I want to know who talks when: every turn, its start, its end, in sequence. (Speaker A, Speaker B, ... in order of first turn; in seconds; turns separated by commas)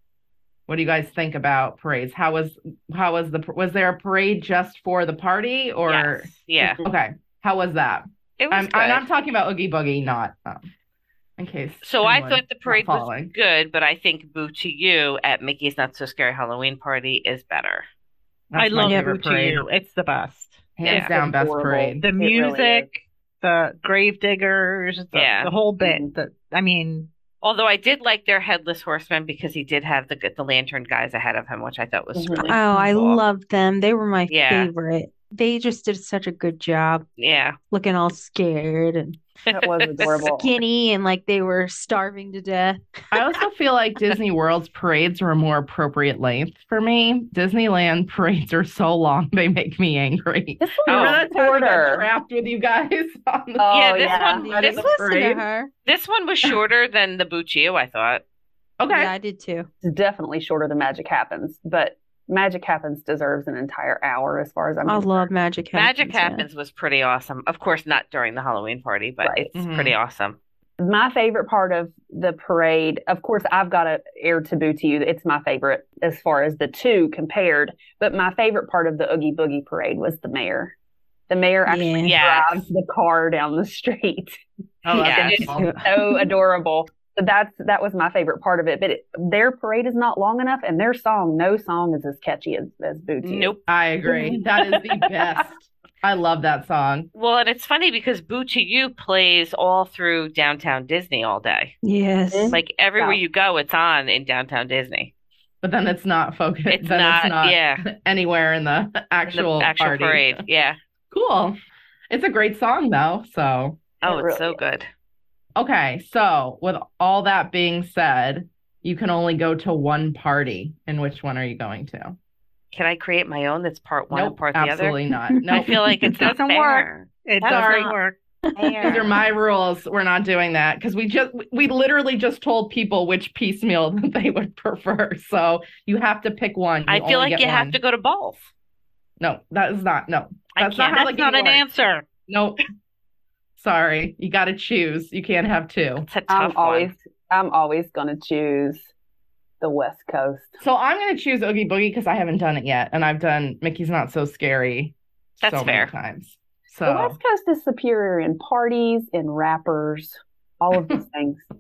Speaker A: 0.7-10.7, Speaker B: 5.9-6.8, Speaker B: 8.4-9.1, Speaker A: 11.4-13.3, Speaker B: 11.8-17.9, Speaker A: 18.5-19.6, Speaker C: 18.6-20.7, Speaker D: 18.8-19.1, Speaker A: 20.8-22.1, Speaker E: 20.8-22.9, Speaker B: 20.9-21.1, Speaker C: 22.0-27.1, Speaker B: 25.1-25.5, Speaker E: 25.8-26.1, Speaker B: 27.4-33.2, Speaker E: 32.2-32.6, Speaker D: 32.4-37.0, Speaker B: 34.3-34.7, Speaker B: 37.2-37.6, Speaker D: 37.7-39.2, Speaker B: 39.5-40.3, Speaker E: 39.5-40.5, Speaker D: 40.0-43.3, Speaker A: 43.1-55.4, Speaker E: 50.6-52.1, Speaker B: 50.9-51.2, Speaker E: 53.6-54.5, Speaker B: 53.7-54.9, Speaker D: 54.4-55.7, Speaker B: 55.9-58.2, Speaker A: 58.8-59.1, Speaker D: 58.9-59.7, Speaker E: 59.8-65.3, Speaker D: 64.8-66.5, Speaker B: 65.8-70.4, Speaker E: 69.2-69.5, Speaker A: 69.5-70.0, Speaker E: 70.8-80.7, Speaker E: 81.3-84.4, Speaker D: 81.7-82.2, Speaker B: 82.0-82.7, Speaker A: 84.8-85.8, Speaker B: 84.9-85.5, Speaker E: 85.0-93.5, Speaker D: 85.4-86.3, Speaker B: 93.2-93.6, Speaker A: 93.7-97.1, Speaker E: 94.1-94.4, Speaker B: 97.1-101.7, Speaker D: 101.8-102.6, Speaker E: 102.3-103.2, Speaker B: 102.5-105.1, Speaker A: 105.6-110.4, Speaker B: 106.7-107.8, Speaker B: 109.2-110.8, Speaker A: 111.1-111.6, Speaker A: 112.1-113.8, Speaker E: 114.0-114.6, Speaker B: 114.0-114.9, Speaker A: 115.6-122.2, Speaker B: 122.7-125.0, Speaker A: 124.1-125.7, Speaker D: 125.3-126.2, Speaker B: 125.5-127.9, Speaker C: 126.1-128.2, Speaker A: 127.5-128.0, Speaker D: 128.5-129.2, Speaker B: 128.6-129.2, Speaker A: 128.8-137.8, Speaker B: 136.9-138.5, Speaker A: 139.2-141.6, Speaker B: 140.5-141.1, Speaker C: 140.9-142.1, Speaker A: 142.3-142.6, Speaker A: 143.6-146.1, Speaker B: 146.0-146.9, Speaker E: 146.3-148.9, Speaker E: 149.6-150.6, Speaker A: 150.6-157.2, Speaker B: 155.4-155.9, Speaker E: 156.8-161.4